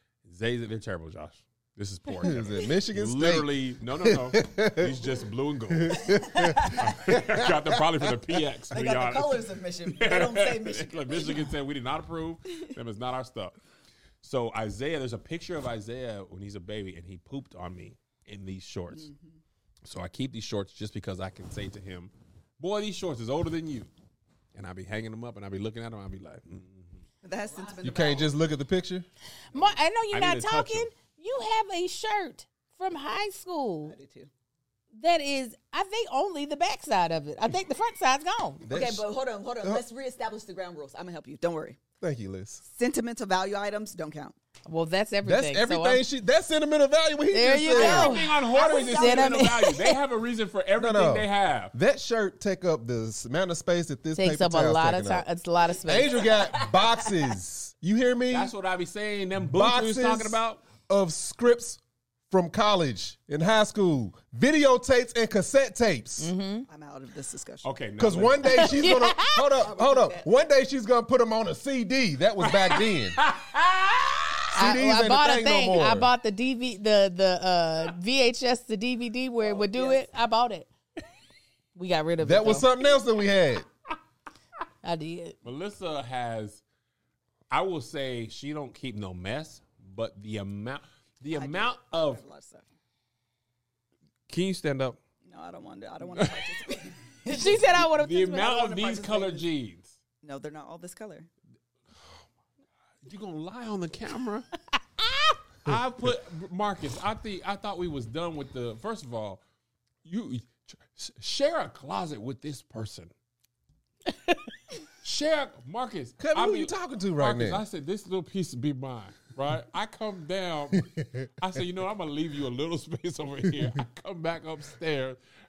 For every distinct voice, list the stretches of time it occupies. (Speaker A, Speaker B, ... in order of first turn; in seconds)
Speaker A: 0.2-13.6, 14.2-19.1, 19.9-23.9, 24.6-26.9, 30.1-30.9, 47.8-51.7, 58.3-60.6, 67.6-68.7, 72.4-74.5, 85.4-86.6, 87.5-92.2, 94.3-95.0, 96.2-96.5, 97.8-99.9, 103.0-104.5, 105.7-109.4, 110.0-113.1, 115.0-125.2
Speaker B: 2.2-5.0, 5.7-8.1, 27.8-29.1, 38.6-39.0, 42.0-42.6, 45.2-48.1, 50.8-55.3, 55.9-58.5, 59.4-66.3, 68.0-73.2, 74.5-76.1, 82.2-83.7, 116.2-117.6, 120.7-121.3
Speaker C: 6.1-7.1, 8.7-11.5, 18.9-19.4, 27.2-28.3, 33.9-34.3, 38.7-41.8, 42.6-44.4, 48.1-49.5, 56.4-56.7, 66.7-67.7, 69.6-70.3, 79.4-80.1, 91.3-92.7, 95.2-97.4, 98.3-99.5, 100.2-101.3
Speaker D: 29.5-34.0, 34.9-38.6, 44.7-46.0, 47.3-50.0, 54.2-56.2, 66.2-66.7, 68.5-69.5, 74.5-80.7, 81.8-82.7, 84.8-85.4, 97.2-98.5, 114.1-114.4